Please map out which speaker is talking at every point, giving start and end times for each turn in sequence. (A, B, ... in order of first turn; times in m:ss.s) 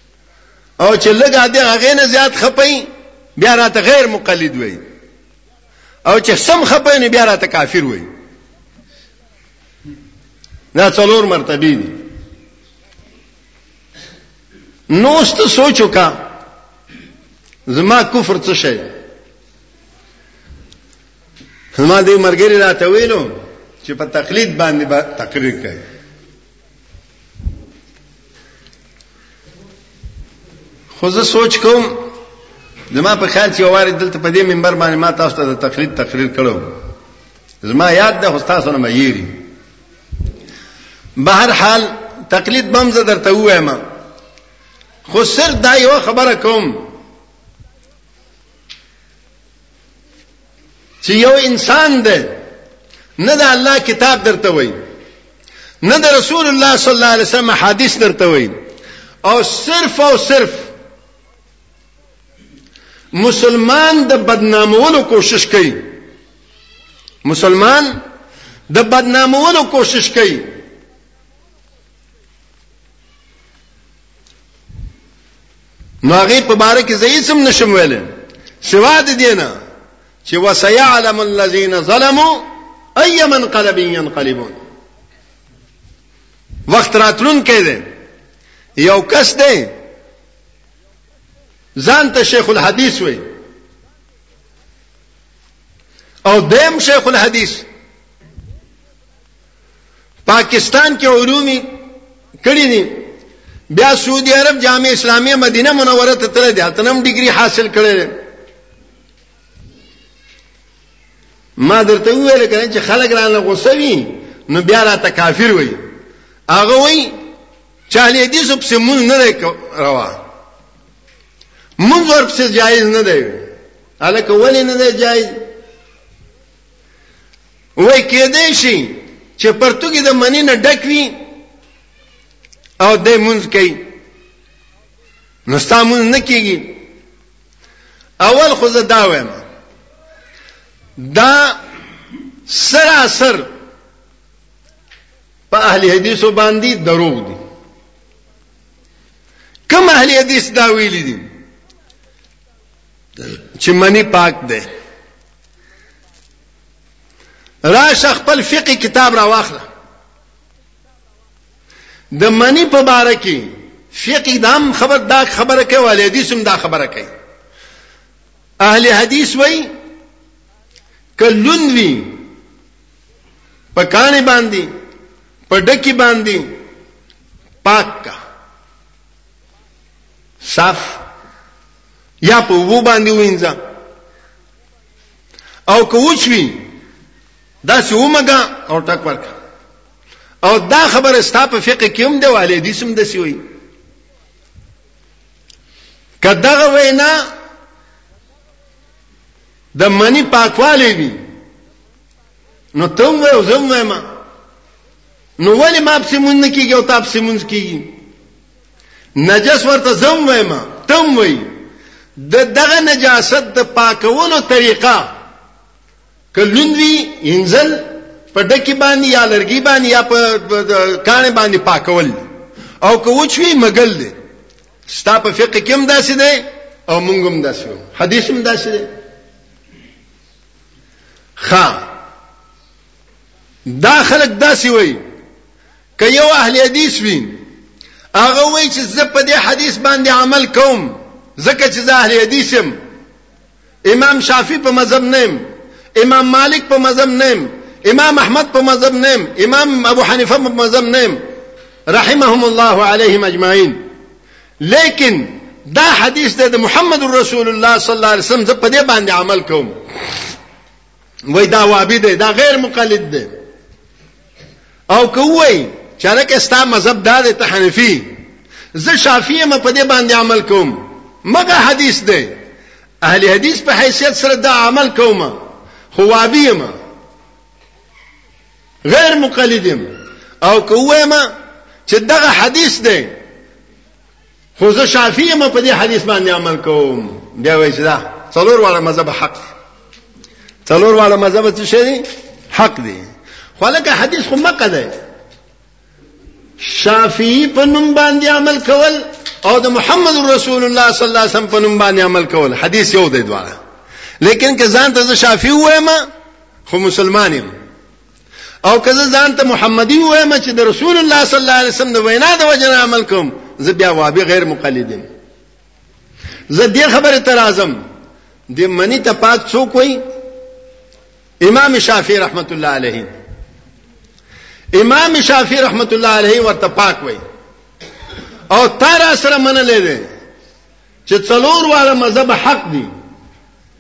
0:00.8-0:02.8 A
0:03.4-0:04.8 A
0:06.0-0:08.1 A
0:10.7-0:12.0 A
0:14.9-0:16.2 A
0:17.7-0:18.9 A
0:21.8-0:25.8 A
0:31.0-0:32.1 A
0:32.9-0:36.8 A
0:37.6-0:39.4 A
0:41.2-0:43.8 A
0:45.1-0:46.8 A
0:51.0-0:52.4 A
0:53.2-0:54.8 A
0:55.8-0:58.5 A
0:59.2-1:00.7 A
1:03.1-1:05.9 A
1:07.2-1:07.9 A
1:08.7-1:10.5 A
1:16.0-1:18.1 A
1:18.6-1:19.5 A
1:20.2-1:24.5 A
1:26.7-1:27.8 A
1:28.8-1:29.7 A
1:31.8-1:33.2 A
1:36.2-1:37.6 A
1:40.2-1:41.7 A
1:42.4-1:43.1 A
1:43.7-1:48.1 A
1:51.6-1:55.8 A
1:56.5-1:57.1 A
1:57.9-2:00.2 A
2:01.8-2:03.5 A
2:04.0-2:05.4 A
2:07.8-2:11.1 A
2:12.8-2:13.8 A
2:15.5-2:16.8 A
2:18.2-2:19.4 A
2:21.0-2:21.6 A
2:22.5-2:23.5 A
2:25.5-2:27.4 A
2:29.7-2:31.3 A
2:33.6-2:34.6 A
2:37.6-2:39.6 A
2:42.1-2:47.1 A
2:48.6-2:49.7 A
2:51.2-2:52.2 A
2:53.7-2:54.7 A
2:55.5-2:56.5 A
2:57.6-2:58.1 A
3:00.4-3:01.0 A
3:02.2-3:03.6 A
3:05.7-3:06.7 A
3:07.6-3:09.3 A
3:10.4-3:13.4 A
3:16.2-3:17.2 A
3:19.7-3:21.2 A
3:22.7-3:24.0 A
3:25.4-3:27.9 A
3:29.2-3:31.5 A
3:32.2-3:35.1 A
3:36.3-3:42.2 A
3:42.8-3:44.1 A
3:44.9-3:48.9 A
3:51.4-3:51.9 A
3:53.7-3:55.0 A
3:56.0-3:57.4 A
3:58.2-4:02.8 A
4:03.8-4:05.4 A
4:06.0-4:11.2 A
4:11.9-4:13.8 A
4:14.6-4:19.7 A
4:21.3-4:23.3 A
4:24.9-4:28.1 A
4:28.7-4:32.3 A
4:33.0-4:35.4 A
4:35.9-4:36.7 A
4:38.9-4:39.8 A
4:40.4-4:41.3 A
4:41.9-4:43.1 A
4:44.6-4:49.4 A
4:50.7-4:53.1 A
4:53.6-4:54.9 A
4:56.6-5:03.6 A
5:04.2-5:06.0 A
5:06.7-5:07.5 A
5:08.6-5:15.0 A
5:16.5-5:17.8 A
5:18.5-5:20.0 A
5:21.4-5:23.1 A
5:24.7-5:27.2 A
5:28.5-5:30.0 A
5:31.1-5:32.9 A